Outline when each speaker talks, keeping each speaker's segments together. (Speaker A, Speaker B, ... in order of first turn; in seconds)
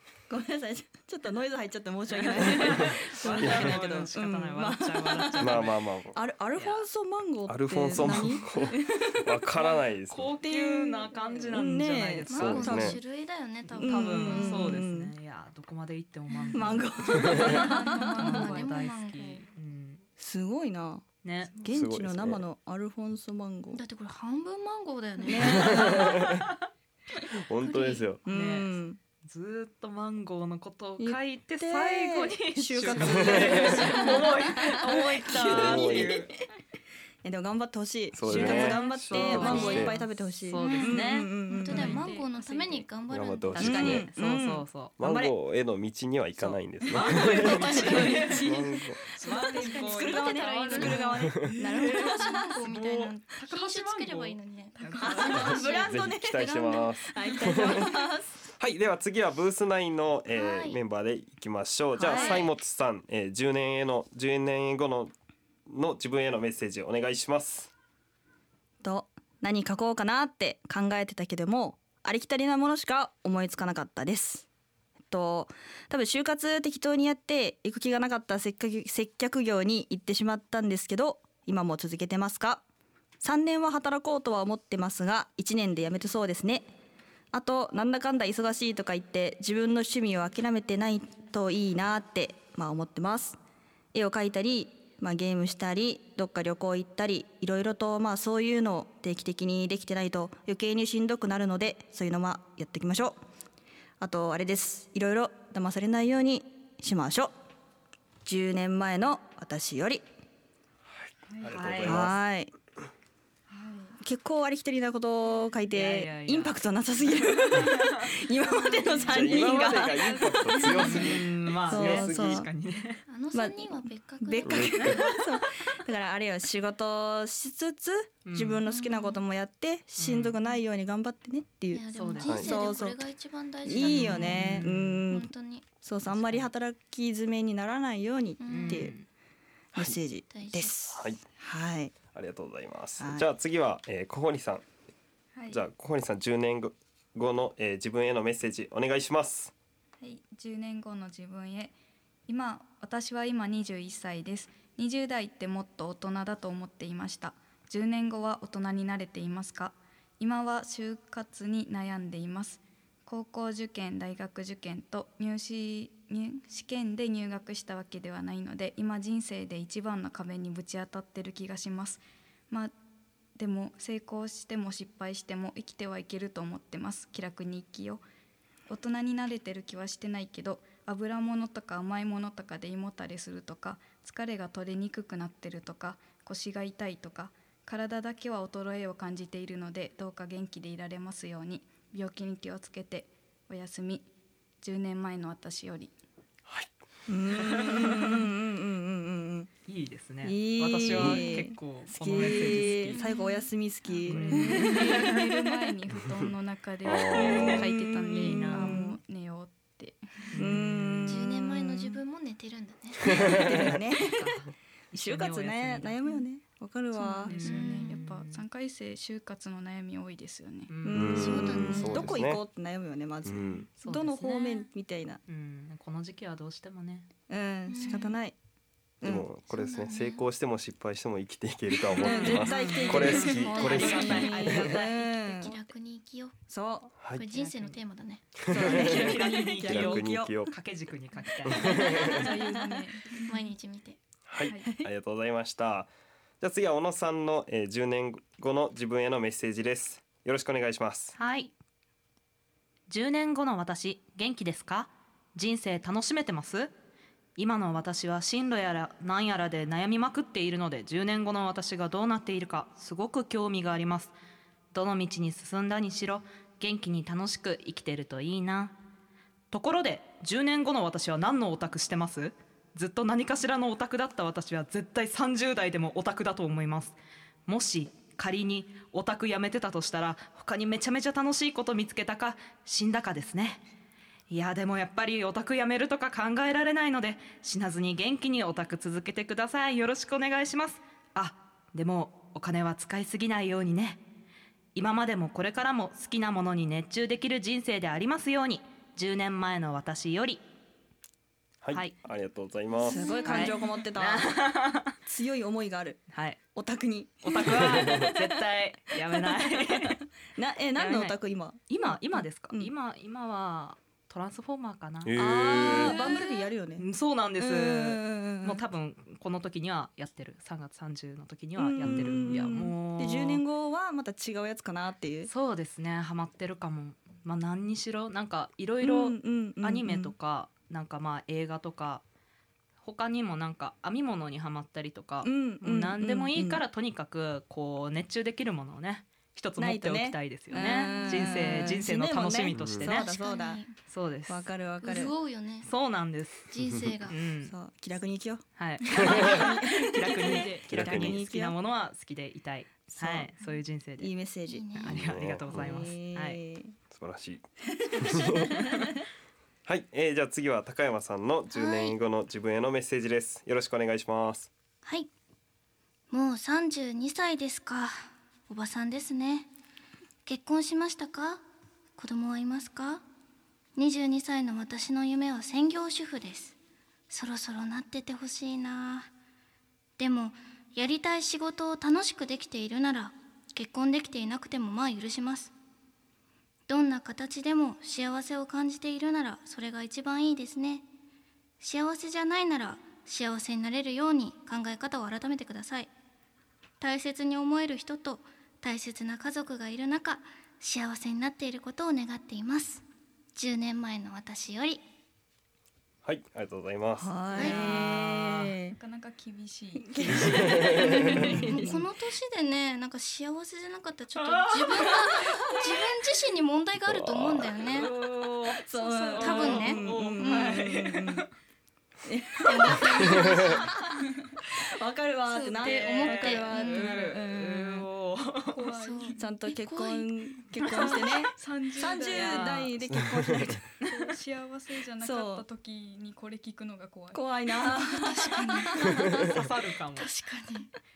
Speaker A: 0.3-9.5, 10.4-13.0, 13.8-15.1, 16.5-18.4, 20.2-21.0, 21.6-23.8, 25.2-26.3, 28.2-29.0, 31.0-36.3, 37.2-41.9, 43.6-45.3, 47.0-52.6, 55.0-58.4, 62.0-62.5, 68.8-74.5, 75.1-82.6, 83.2-86.7, 87.3-93.4, 93.9-103.2, 104.0-107.3, 108.2-110.0, 111.8-112.5, 114.0-122.5, 123.3-133.1, 133.6-135.3, 135.8-138.9, 139.7-141.9, 143.0-143.3, 197.1-199.5, 200.2-205.3, 207.1-209.0, 210.3-212.0, 213.0-214.4, 214.9-217.4, 220.8-225.2, 227.3-228.4, 229.0-229.3, 232.0-235.5, 236.5-236.9, 238.5-240.3, 241.6-242.8, 244.6-244.9, 302.8-304.4, 305.0-308.4, 308.9-312.7, 315.2-316.9, 317.4-318.6, 321.6-325.3, 328.8-330.1, 335.2-336.6, 339.6-343.6, 344.3-345.1, 347.4-351.6, 352.9-353.3, 354.0-354.9, 355.4-356.7, 357.7-358.9, 407.0-408.8, 409.9-411.8, 418.0-421.3, 422.0-423.6, 424.6-427.9, 429.2-433.7, 435.0-435.4, 437.1-439.1
Speaker B: 2.1-5.8, 6.6-6.8, 9.6-12.9, 13.6-20.0, 21.2-21.5, 28.3-28.7, 29.2-36.3, 38.3-42.0, 43.5-44.9, 46.4-48.5, 49.2-51.0, 52.8-53.0, 53.7-55.8, 111.5-112.1, 115.7-116.5, 117.5-118.0, 120.7-123.0, 128.2-128.6, 130.0-130.4, 131.9-132.7, 133.8-135.1, 136.1-136.5, 138.5-139.1, 197.4-198.2, 199.7-203.0, 204.1-205.2, 207.3-207.6, 208.1-208.8, 210.3-211.2, 213.3-216.0, 217.3-218.4, 220.7-221.2, 223.8-224.7, 225.3-227.1, 232.0-235.4, 237.3-237.8, 238.4-242.1, 251.2-251.5, 252.9-256.7, 257.4-264.1, 264.7-268.8, 269.5-283.6, 284.3-294.0, 294.7-300.4, 303.2-304.9, 306.1-306.4, 307.2-310.0, 310.8-316.2, 316.8-323.4, 325.3-332.0, 332.8-343.1, 343.9-344.4, 345.6-346.5, 347.1-347.5, 348.6-354.1, 354.8-356.4, 407.5-408.5, 410.1-410.4, 414.1-415.8, 417.7-421.3, 425.6-428.7, 430.6-430.9, 432.1-432.7, 439.0-440.1
Speaker C: 2.8-3.8, 5.4-6.2, 7.5-10.3, 12.3-13.0, 21.7-22.4, 25.7-26.4, 27.3-28.2, 33.2-33.7, 35.5-36.2, 38.1-39.9, 43.1-44.1, 45.0-49.0, 55.5-57.9, 58.6-65.1, 65.7-67.7, 111.0-112.1, 119.0-122.5, 124.4-125.0, 132.2-132.5, 140.9-141.2, 142.1-144.6, 145.5-149.5, 200.9-201.2, 206.8-207.7, 213.1-213.4, 220.9-222.4, 223.3-223.6, 229.0-234.7, 238.4-240.5, 241.4-242.2, 244.3-245.9, 246.4-251.2, 301.6-303.2, 315.0-316.0, 321.8-322.1, 342.5-342.9, 349.0-349.3, 350.7-351.2, 354.9-355.8, 356.9-358.7, 359.6-364.5, 406.0-407.2, 410.3-411.3, 416.8-417.6, 433.0-433.6
Speaker D: 12.3-14.8, 17.5-19.4, 23.7-26.2, 27.6-28.1, 39.4-39.7, 41.5-43.6, 49.6-51.1, 51.9-55.8, 60.3-60.8, 62.1-62.5, 123.1-125.0, 128.7-129.2, 131.7-135.7, 138.4-138.9, 140.3-140.8, 202.9-203.5, 211.0-213.2, 217.4-218.0, 221.2-222.2, 227.7-228.2, 229.5-230.2, 232.0-232.4, 233.1-236.3, 237.1-238.2, 243.2-244.0, 302.8-303.6, 340.8-341.4, 342.8-343.8, 344.8-345.7, 346.5-347.2, 354.5-355.0, 361.5-361.9, 366.1-369.5, 370.2-371.4, 371.9-373.0, 373.8-376.6, 377.1-379.1, 380.0-385.5, 386.7-390.9, 391.6-395.9, 396.8-402.8, 403.3-404.8, 407.3-407.8, 411.0-417.9, 419.1-420.6, 422.4-423.8, 425.3-426.9, 428.8-430.2, 439.9-440.7
Speaker E: 17.2-18.8, 38.5-39.8, 40.6-40.9, 41.5-42.9, 47.8-48.0, 49.2-50.0, 52.4-52.8, 54.8-55.5, 111.3-111.5, 113.5-114.0, 118.8-121.0, 145.3-145.6, 150.0-151.7, 152.3-172.7, 173.4-178.0, 178.7-194.1, 194.6-195.9, 204.1-210.3, 216.9-220.7, 241.9-243.4, 244.4-244.7, 408.7-410.6, 428.5-429.2, 430.7-432.7, 433.8-438.7